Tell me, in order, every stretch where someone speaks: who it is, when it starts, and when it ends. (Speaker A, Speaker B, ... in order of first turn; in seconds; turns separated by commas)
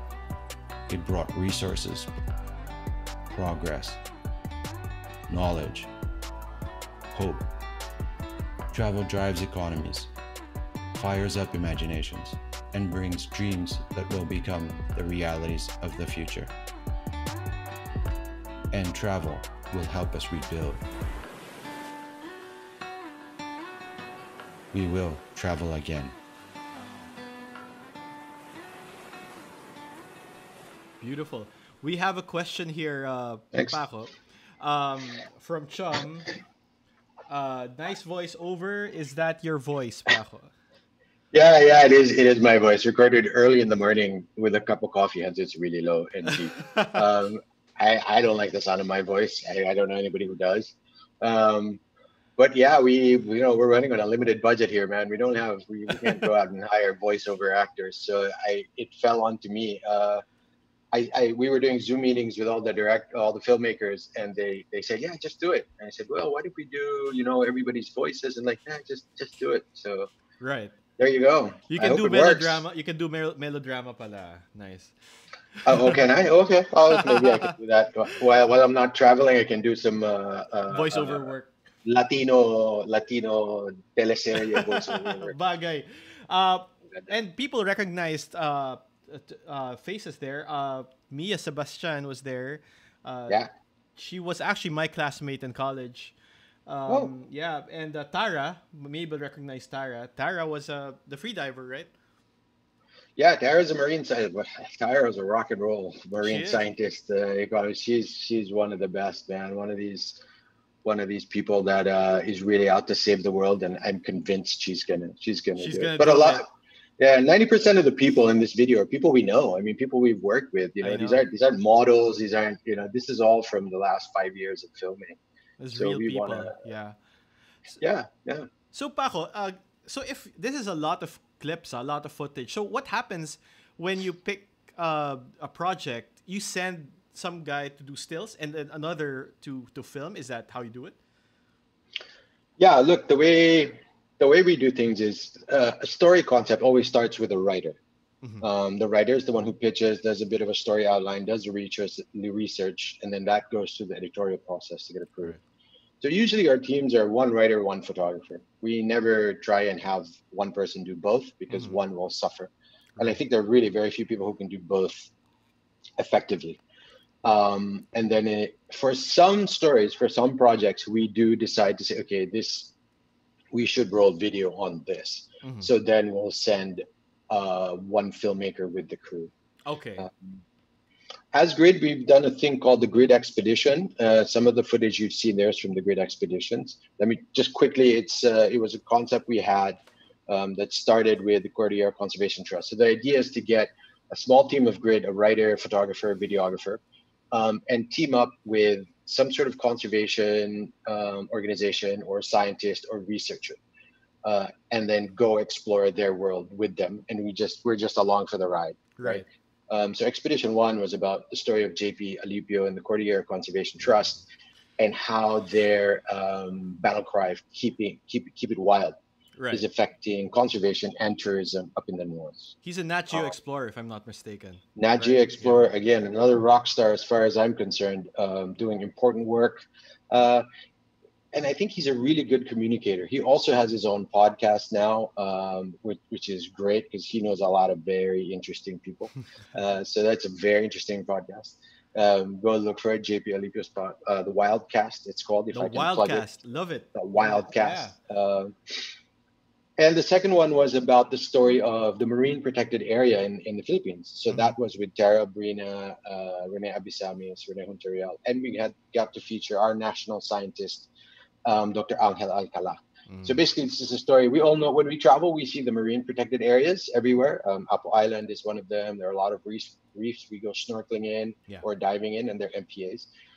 Speaker A: 0.9-2.1, Speaker A: 3.3-4.0, Speaker A: 5.3-5.9, Speaker A: 7.1-7.5, Speaker A: 8.7-10.1, Speaker A: 10.9-16.5, Speaker A: 18.7-20.9, Speaker A: 24.7-26.1, Speaker B: 31.0-36.3, Speaker C: 33.5-33.8, Speaker B: 37.3-40.5, Speaker C: 41.3-51.8, Speaker B: 46.3-47.0, Speaker C: 52.4-60.2, Speaker C: 60.9-70.1, Speaker B: 70.4-70.7, Speaker C: 71.0-72.6, Speaker B: 71.7-74.9, Speaker B: 75.6-76.0, Speaker C: 75.7-81.3, Speaker B: 76.9-77.5, Speaker B: 80.7-81.5, Speaker C: 81.8-85.3, Speaker B: 84.5-93.4, Speaker B: 94.0-96.2, Speaker B: 96.7-101.9, Speaker C: 103.2-110.2, Speaker B: 106.2-106.7, Speaker C: 110.8-116.5, Speaker B: 115.6-116.5, Speaker C: 117.0-125.2, Speaker B: 120.8-121.2, Speaker B: 125.6-127.0, Speaker C: 125.7-126.6, Speaker C: 127.8-128.5, Speaker B: 128.7-141.0, Speaker C: 142.6-147.8, Speaker C: 148.4-155.3, Speaker C: 156.0-165.1, Speaker B: 161.5-161.8, Speaker C: 166.0-166.6, Speaker C: 167.2-172.8, Speaker C: 173.5-179.3, Speaker B: 175.4-175.7, Speaker B: 179.7-180.1, Speaker C: 180.0-180.3, Speaker C: 181.3-189.8, Speaker C: 190.3-203.6, Speaker C: 204.2-214.2, Speaker B: 209.0-209.2, Speaker C: 214.8-219.0, Speaker B: 219.4-219.7, Speaker C: 219.5-222.5, Speaker B: 222.6-225.7, Speaker C: 224.8-230.4, Speaker C: 231.3-246.3, Speaker B: 245.5-247.9, Speaker C: 246.9-248.8, Speaker C: 249.8-260.9, Speaker C: 261.4-273.1, Speaker B: 263.1-263.4